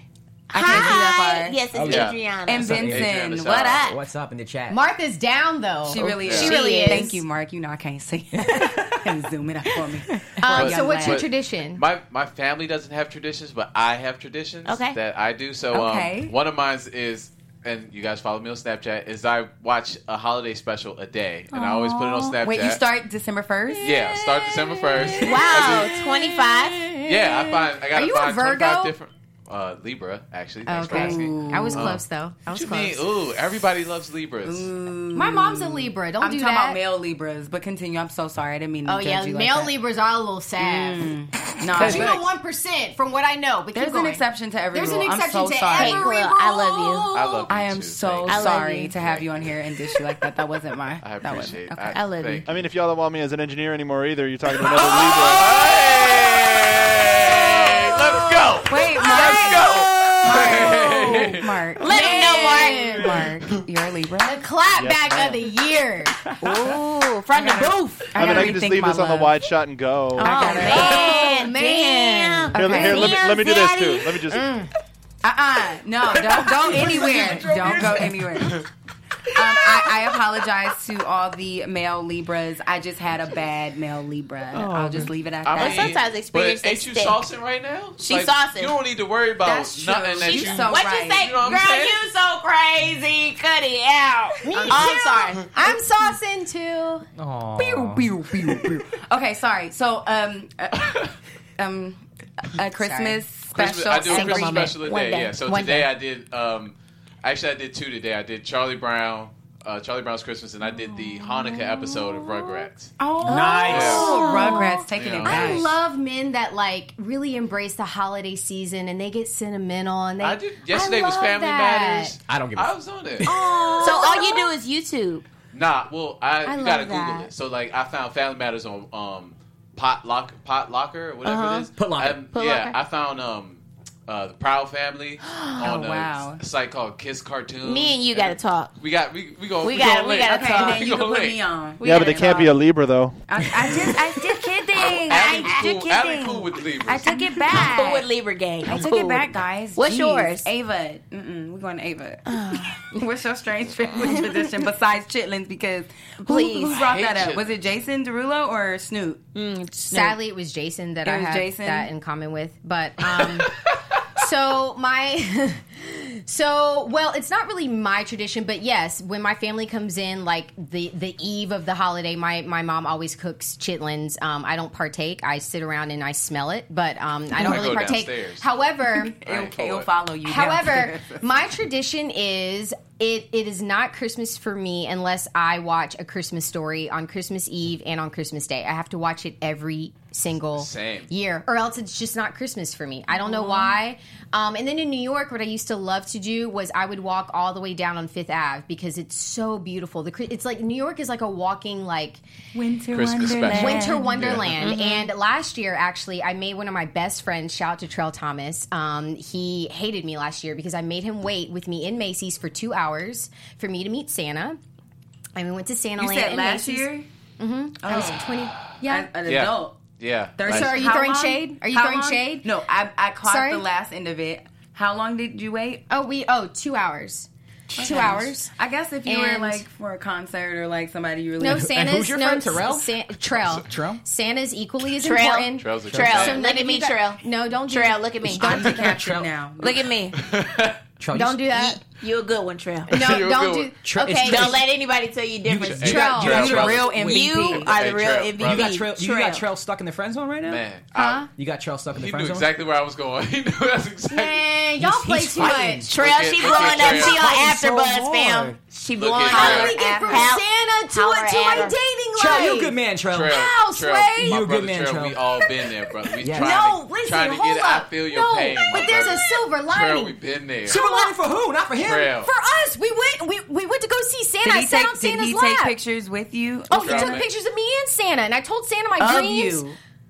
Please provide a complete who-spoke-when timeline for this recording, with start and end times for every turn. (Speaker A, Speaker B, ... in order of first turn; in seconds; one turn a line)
Speaker A: 0.5-2.7
Speaker B: 0.5-1.6
Speaker C: 1.7-3.2
Speaker D: 1.9-2.2
Speaker B: 2.5-3.9
Speaker D: 2.7-3.9
Speaker A: 3.5-3.9
Speaker C: 3.8-4.8
Speaker E: 4.7-7.2
Speaker B: 5.8-11.2
Speaker D: 6.2-6.5
Speaker A: 6.3-7.1
Speaker E: 10.4-11.8
Speaker D: 10.4-22.8
Speaker A: 14.7-14.9
Speaker B: 15.7-16.3
Speaker B: 21.5-24.2
Speaker D: 23.8-26.0
Speaker A: 25.1-27.0
Speaker D: 27.0-34.7
Speaker E: 27.9-28.9
Speaker E: 30.6-33.1
Speaker B: 30.9-32.0
Speaker B: 34.4-39.7
Speaker E: 35.1-36.8
Speaker E: 38.9-41.1
Speaker B: 40.6-42.2
Speaker E: 41.7-47.5
Speaker B: 43.7-46.1
Speaker A: 45.8-47.1
Speaker D: 47.1-49.5
Speaker B: 47.5-51.9
Speaker A: 48.2-48.9
Speaker D: 51.0-52.6
Speaker A: 51.9-52.5
Speaker F: 52.5-55.6
Speaker A: 54.7-56.6
Speaker D: 54.7-61.5
Speaker A: 57.2-58.5
Speaker B: 58.7-64.4
Speaker E: 59.0-59.8
Speaker A: 61.8-63.2
Speaker E: 61.9-63.4
Speaker E: 64.2-66.2
Speaker F: 64.8-65.5
Speaker B: 66.4-69.3
Speaker A: 66.6-68.6
Speaker F: 68.2-70.8
Speaker A: 70.2-74.3
Speaker B: 70.2-71.2
Speaker E: 70.2-73.1
Speaker F: 72.5-74.5
Speaker B: 72.5-73.2
Speaker E: 74.3-74.7
Speaker B: 75.2-78.6
Speaker C: 76.4-78.2
Speaker D: 77.2-78.7
Speaker B: 79.3-86.0
Speaker C: 79.5-79.9
Speaker A: 84.6-87.2
Speaker D: 85.4-92.0
Speaker A: 88.0-88.7
Speaker B: 89.4-91.3
Speaker A: 90.2-95.5
Speaker E: 94.4-97.0
Speaker B: 94.5-94.8
Speaker C: 97.2-98.1
Speaker B: 97.5-104.7
Speaker D: 100.8-101.1
Speaker E: 102.8-103.2
Speaker D: 103.5-112.9
Speaker E: 104.0-105.9
Speaker E: 111.2-122.2
Speaker B: 113.0-115.7
Speaker C: 113.2-114.2
Speaker A: 113.4-113.7
Speaker D: 113.6-114.2
Speaker A: 114.2-114.7
Speaker D: 114.9-115.7
Speaker D: 120.2-123.3
Speaker C: 122.3-123.3
Speaker E: 123.2-124.5
Speaker A: 123.3-125.2
Speaker D: 125.5-141.4
Speaker E: 126.5-127.3
Speaker A: 131.2-131.7
Speaker C: 131.8-132.2
Speaker A: 132.3-132.8
Speaker A: 135.3-135.6
Speaker B: 135.6-136.4
Speaker A: 137.6-138.7
Speaker A: 139.6-140.9
Speaker B: 140.2-142.5
Speaker A: 141.8-142.2
Speaker F: 141.8-143.9
Speaker E: 141.8-142.4
Speaker B: 143.3-148.1
Speaker D: 145.1-147.2
Speaker A: 145.2-145.7
Speaker A: 147.5-150.5
Speaker B: 148.6-159.2
Speaker A: 152.3-152.9
Speaker A: 156.2-156.8
Speaker D: 156.8-157.6
Speaker A: 159.3-160.2
Speaker E: 159.8-179.2
Speaker B: 161.0-161.9
Speaker D: 177.3-178.4
Speaker B: 177.4-177.9
Speaker B: 179.0-181.5
Speaker D: 179.2-179.9
Speaker E: 180.2-202.2
Speaker D: 190.5-191.1
Speaker B: 202.5-204.4
Speaker D: 202.9-204.6
Speaker E: 203.5-214.6
Speaker A: 204.6-205.1
Speaker E: 215.3-219.1
Speaker B: 216.0-217.1
Speaker B: 217.8-218.2
Speaker D: 218.6-220.9
Speaker B: 218.8-219.8
Speaker B: 220.3-225.8
Speaker E: 220.4-222.5
Speaker E: 223.2-223.6
Speaker E: 225.9-227.3
Speaker C: 227.7-228.2
Speaker B: 227.8-231.7
Speaker E: 227.8-228.5
Speaker E: 229.1-229.6
Speaker E: 231.4-238.8
Speaker C: 231.4-232.9
Speaker D: 233.3-233.6
Speaker C: 233.6-234.0
Speaker A: 235.0-239.0
Speaker D: 235.5-236.4
Speaker C: 238.4-239.3
Speaker B: 238.4-239.9
Speaker A: 239.6-240.2
Speaker D: 240.1-240.8
Speaker C: 241.0-241.5
Speaker E: 241.1-241.8
Speaker A: 241.5-242.9
Speaker D: 242.9-243.8
Speaker E: 242.9-244.6
Speaker C: 243.8-244.6
Speaker A: 244.0-246.0
Speaker C: 245.4-247.5
Speaker D: 245.6-248.8
Speaker E: 245.9-246.5
Speaker B: 245.9-247.7
Speaker A: 246.9-249.4
Speaker C: 248.4-250.6
Speaker D: 250.4-251.3
Speaker E: 250.9-251.3
Speaker C: 251.3-252.5
Speaker D: 251.9-254.6
Speaker E: 254.1-255.9
Speaker C: 254.8-258.6
Speaker D: 255.4-257.3
Speaker A: 255.9-261.8
Speaker D: 259.0-259.9
Speaker E: 259.2-264.4
Speaker B: 259.3-260.3
Speaker C: 262.1-263.4
Speaker D: 263.1-270.8
Speaker C: 264.2-265.2
Speaker E: 265.3-271.1
Speaker C: 266.2-266.6
Speaker C: 270.6-272.2
Speaker D: 271.8-272.3
Speaker E: 272.1-275.8
Speaker B: 274.4-277.2
Speaker E: 276.7-279.6
Speaker D: 276.7-277.3
Speaker B: 279.0-279.8